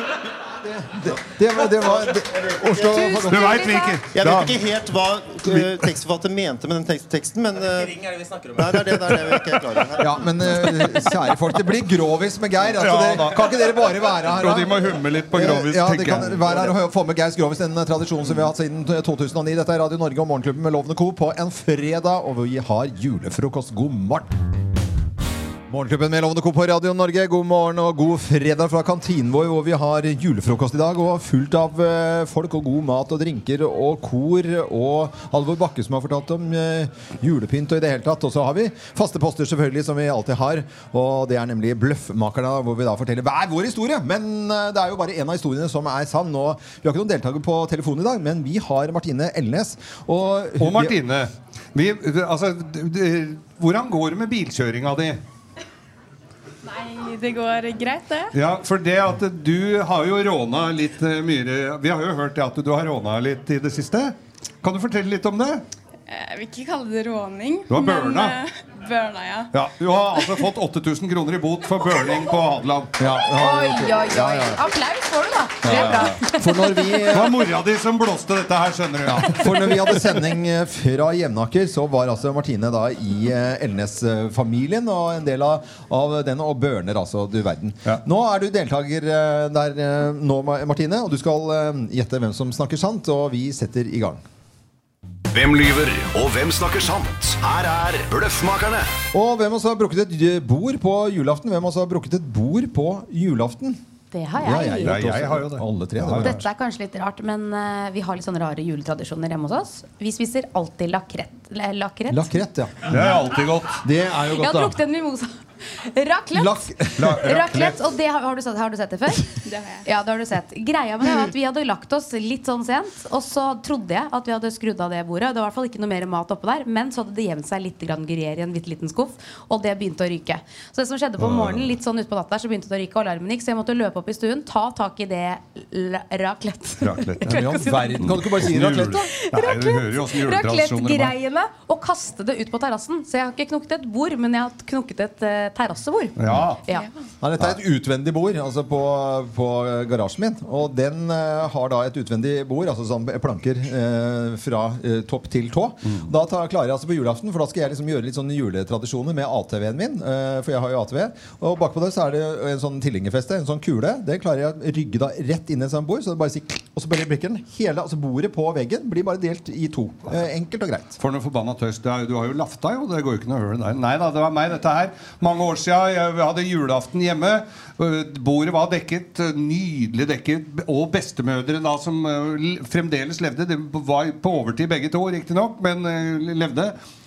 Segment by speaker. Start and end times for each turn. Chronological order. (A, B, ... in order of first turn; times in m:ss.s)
0:00.6-0:03.7 A
0:02.8-0:04.0 B
0:03.1-0:04.8 C
0:04.1-0:08.1 D
0:05.4-0:05.9 C
0:08.6-0:10.2 D
0:10.0-0:24.3 A
0:12.6-0:16.7 C
0:25.7-0:51.0 A
0:50.6-0:55.2 C
0:56.6-0:58.3 E
0:58.3-1:05.6 C
1:06.1-1:09.5 E
1:07.7-1:08.4 C
1:09.5-1:12.9 C
1:13.0-1:14.6 A
1:13.3-1:17.0 B
1:15.6-1:17.5 A
1:15.6-1:16.2 C
1:17.1-1:20.1 C
1:19.0-1:34.2 A
1:35.3-1:38.9 F
1:39.1-1:43.8 A
1:44.1-1:45.0 B
1:44.4-1:46.4 A
1:44.8-1:46.4 C
1:46.2-1:52.4 B
1:52.1-1:53.3 A
1:52.9-1:53.8 C
1:53.8-1:54.8 A
1:54.4-2:18.1 B
1:56.3-1:57.3 A
1:57.0-1:57.8 C
1:59.4-1:59.8 E
2:11.2-2:11.7 C
2:16.8-2:21.1 C
2:17.2-2:19.1 A
2:19.1-2:26.9 B
2:26.2-2:26.6 C
2:27.2-2:51.0 A
2:51.0-3:06.7 C